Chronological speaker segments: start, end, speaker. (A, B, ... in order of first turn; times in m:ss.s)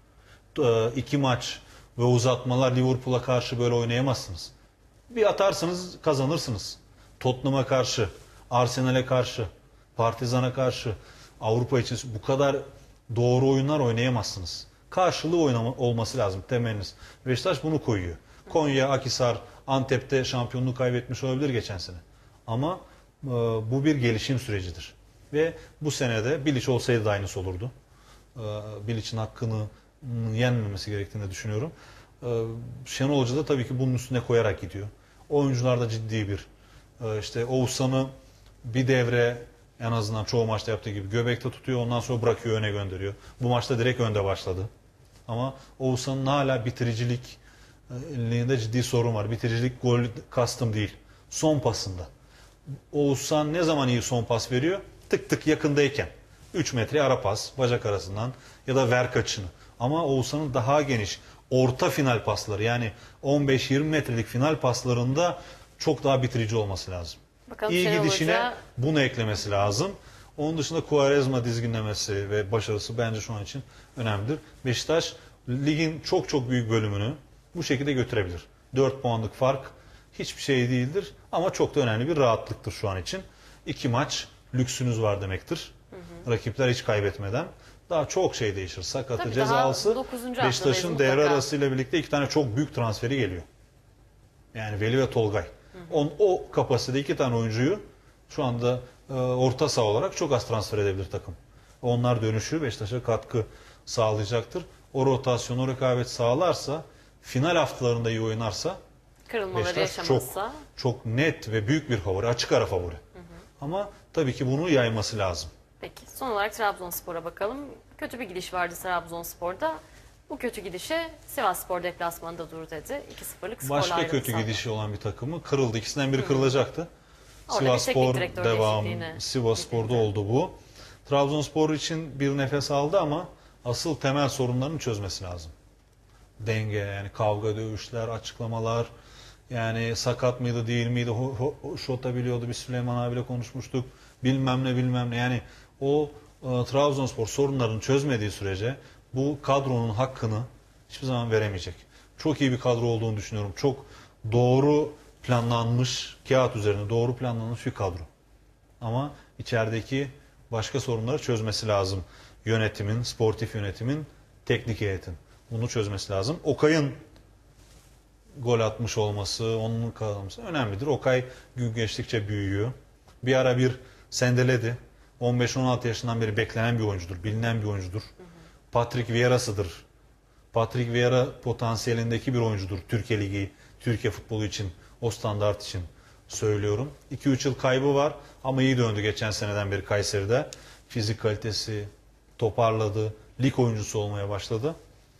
0:00.5-0:04.5 A
0:05.1-0:27.7 A
0:28.3-0:36.5 A
0:37.0-0:38.1 A
0:38.6-0:44.7 A
0:45.3-0:47.4 A
0:47.9-0:52.1 A
0:52.9-1:25.7 A
1:07.5-1:08.6 B
1:26.2-1:33.4 A
1:29.2-1:31.4 B
1:34.5-1:48.8 A
1:49.3-1:50.6 B
1:49.5-1:53.0 A
1:53.6-1:55.5 A
1:55.8-2:04.6 B
2:03.6-2:06.9 A
2:07.5-2:10.0 B
2:07.5-2:15.5 A
2:16.4-2:18.9 A
2:19.5-2:38.1 A
2:38.8-2:47.0 A
2:48.4-2:58.1 A
2:58.7-2:59.8 A
3:00.5-3:14.8 A